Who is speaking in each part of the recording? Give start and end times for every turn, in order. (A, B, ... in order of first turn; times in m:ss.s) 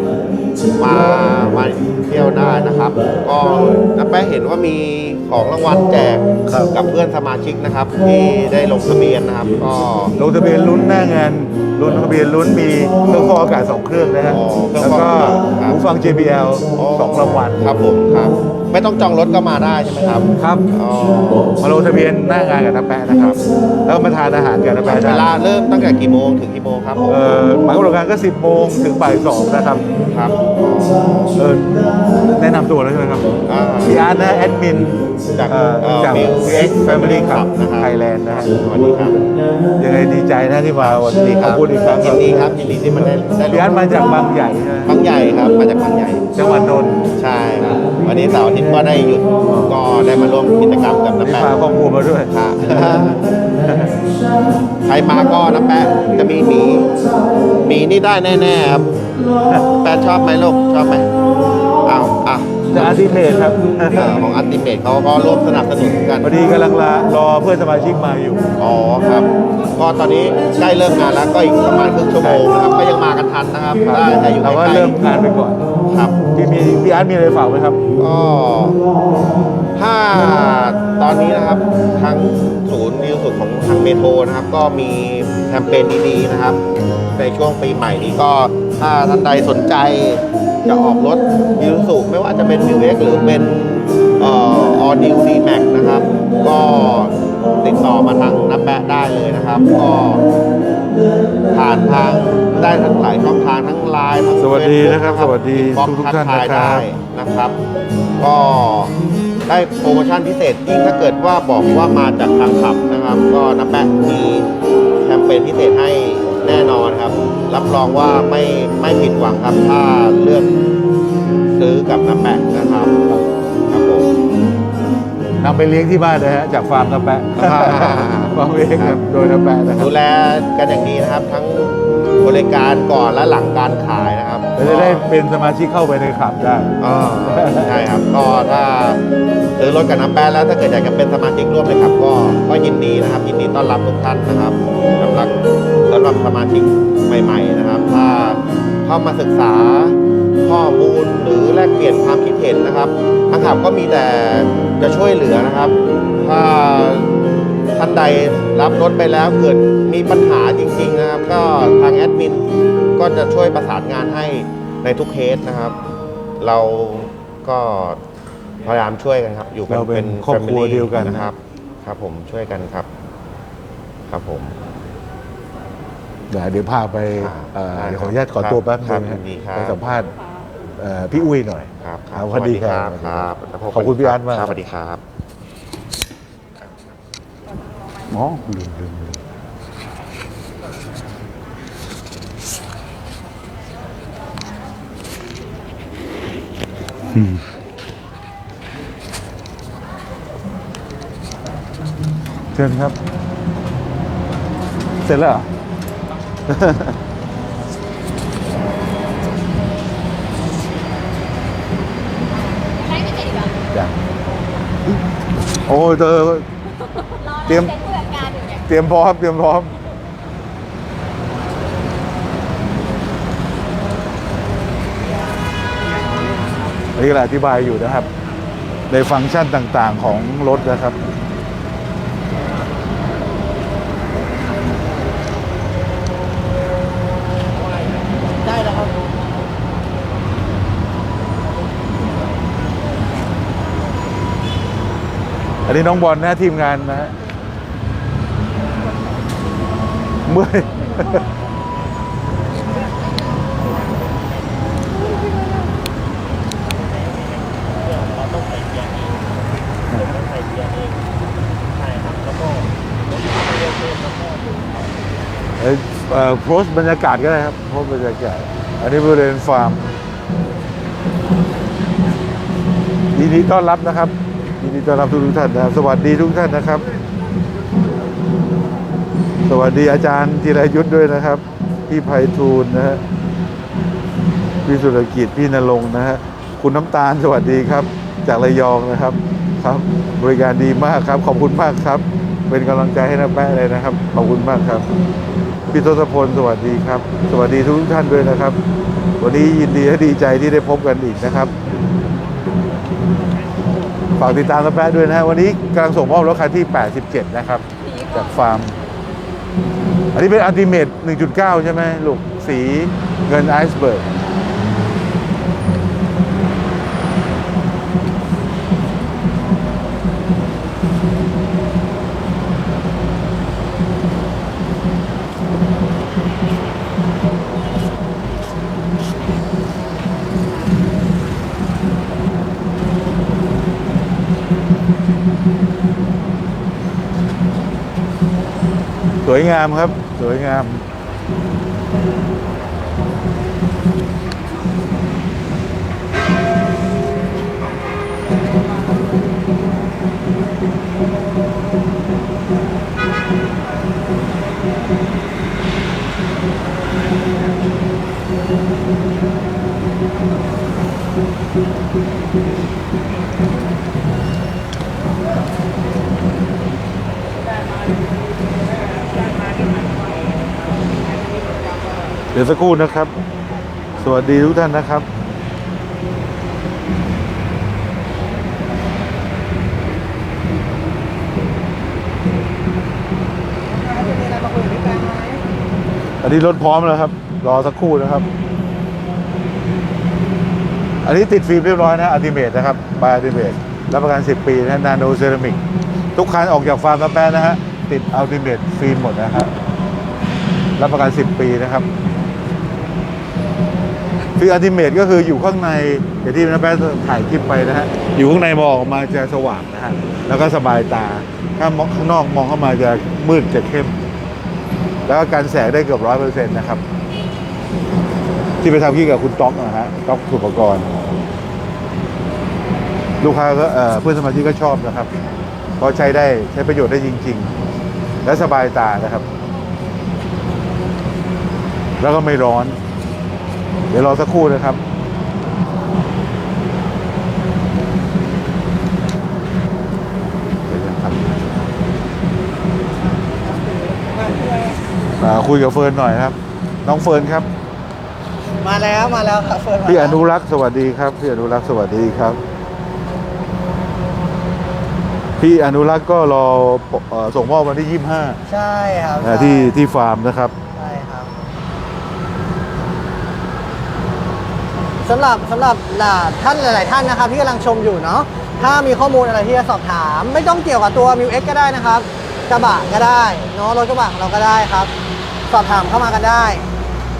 0:00.8-0:10.1 A
0:06.4-0:06.7 B
0:10.2-0:17.6 B
0:14.2-0:15.8 A
0:16.8-0:21.5 A
0:20.4-0:20.6 B
0:21.6-0:25.3 B
0:24.8-0:27.2 A
0:27.1-0:29.8 B
0:30.0-0:31.3 A
0:31.3-0:33.3 B
0:33.4-0:34.0 A
0:33.8-0:38.5 B
0:35.3-0:39.2 A
0:39.8-0:42.5 B
0:40.8-0:44.2 A
0:43.5-0:45.0 B
0:44.8-0:46.3 A
0:46.4-0:47.1 B
0:47.2-0:51.5 A
0:49.5-0:49.8 B
0:51.2-0:53.9 B
0:52.3-0:53.2 A
0:54.8-0:56.9 A
0:57.6-0:58.9 A
0:59.8-1:01.1 A
1:01.8-1:02.9 A
1:02.7-1:04.2 B
1:03.9-1:06.3 A
1:06.2-1:08.5 B
1:08.6-1:14.9 A
1:12.2-1:12.5 B
1:13.9-1:15.7 B
1:15.8-1:16.2 A
1:16.3-1:17.8 B
1:18.0-1:18.8 A
1:19.8-1:26.6 A
1:27.2-1:40.2 A
1:41.5-1:47.6 A
1:44.4-1:46.8 B
1:48.2-1:48.9 A
1:49.5-2:00.6 A
2:01.6-2:02.9 A
2:03.7-2:04.1 A
2:05.4-2:09.9 B
2:07.4-2:09.0 A
2:09.8-2:15.0 A
2:14.6-2:17.8 B
2:16.8-2:19.0 A
2:19.6-2:25.3 A
2:25.9-2:37.1 A
2:37.8-2:45.8 A
2:46.4-2:48.0 A
2:48.6-2:52.9 A
2:49.7-2:51.3 B
2:54.1-2:54.6 A
2:56.3-3:00.1 B
2:57.2-2:59.8 A
3:00.8-3:04.6 B
3:01.8-3:05.0 A
3:08.1-3:09.2 B
3:17.1-3:17.4 B
3:22.5-3:23.0 B
3:25.0-3:25.5 B
3:26.5-3:27.0 B
3:32.7-3:33.6 C
3:35.7-3:36.4 B
3:37.0-3:38.6 C
3:37.4-3:37.7 B
3:38.6-3:39.7 B
3:47.0-3:48.1 B
3:48.9-3:51.0 B
4:05.6-4:07.1 B
4:10.2-4:11.2 B
4:13.6-4:14.1 D
4:16.8-4:19.3 D
4:20.0-4:21.0 D
4:21.7-4:24.8 D
4:25.6-4:29.9 B
4:33.1-4:36.8 B
4:39.4-4:43.0 B
4:44.6-4:54.9 B
4:55.7-4:58.6 B
4:59.2-5:01.5 B
5:04.2-5:08.8 B
5:07.8-5:08.3 C
5:10.1-5:14.1 B
5:39.2-5:40.8 B
6:12.3-6:13.1 B
6:14.0-6:15.0 B
6:23.7-6:25.4 E
6:26.2-6:28.2 B
6:31.0-6:35.6 B
6:36.1-6:39.5 B
6:40.8-6:41.9 B
6:44.4-6:54.0 B
6:55.0-6:56.8 B
6:58.6-7:01.0 B
7:03.2-7:05.1 B
7:05.8-7:07.5 B
7:08.2-7:09.2 B
7:12.0-7:12.8 B
7:13.9-7:14.8 B
7:20.6-7:21.7 B
7:23.6-7:24.8 E
7:25.2-7:27.5 B
7:28.6-7:30.2 E
7:29.8-7:32.4 B
7:35.4-7:38.4 B
7:38.5-7:39.7 E
7:39.2-7:40.5 B
7:40.8-7:41.3 E
7:45.0-7:54.9 E
7:55.5-7:56.6 E